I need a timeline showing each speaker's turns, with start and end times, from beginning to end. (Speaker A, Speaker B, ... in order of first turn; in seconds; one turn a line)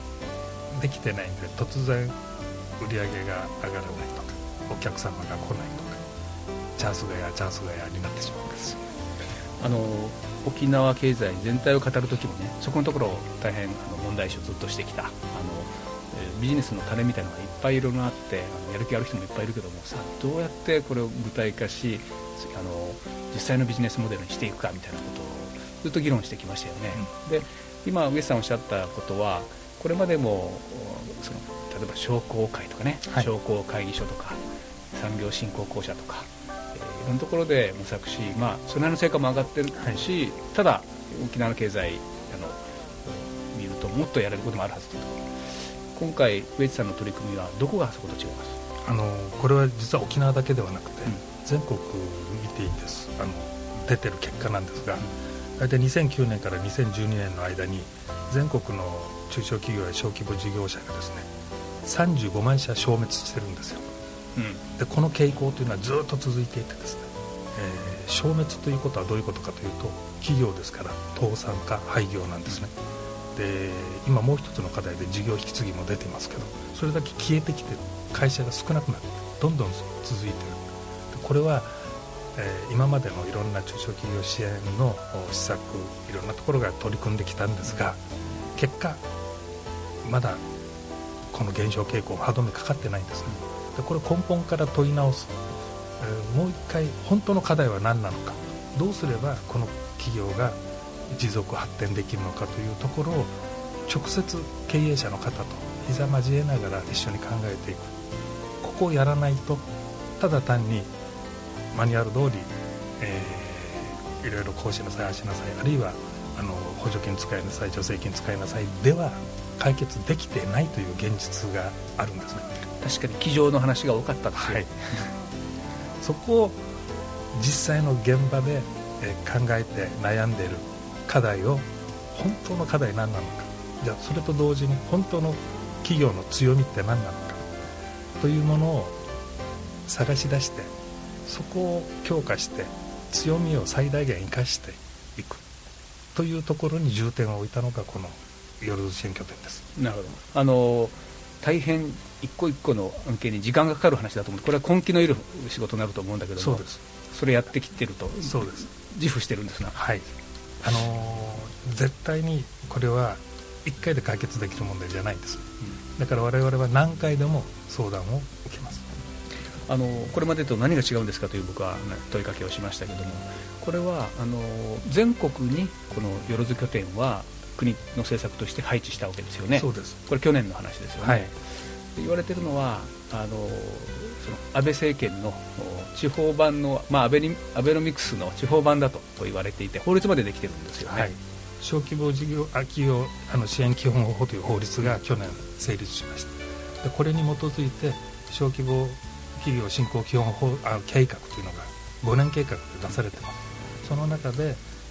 Speaker A: 0.7-2.2
Speaker A: 2.8-6.0
Speaker A: 6.8-8.9
Speaker B: 9.6-34.4
Speaker B: 34.9-48.6
Speaker A: 48.8-61.3
Speaker A: 61.8-63.9
Speaker B: 64.4-64.6
Speaker A: 64.8-72.8
Speaker A: 73.3-81.8
Speaker A: 82.3-88.0
Speaker A: 88.6-89.0
Speaker A: 90.0-90.4
Speaker A: 91.3-95.4
Speaker A: 96.0-100.6
Speaker A: 101.1-107.9
Speaker A: 108.6-109.7
Speaker A: 110.2-110.9
Speaker A: 111.7-122.6
Speaker B: 122.8-125.1
Speaker A: 124.3-124.7
Speaker A: 126.0-126.6
Speaker A: 127.3-137.4
Speaker A: 138.2-139.0
Speaker A: 139.9-140.7
Speaker A: 141.2-145.4
Speaker A: 146.2-149.7
Speaker B: 149.8-159.8
Speaker A: 156.4-156.8
Speaker A: 158.2-158.7
Speaker A: 159.7-160.1
Speaker A: 160.6-168.9
Speaker B: 169.7-181.4
Speaker A: 179.5-180.0
Speaker A: 181.0-181.3
Speaker B: 181.9-191.1
Speaker A: 190.8-204.6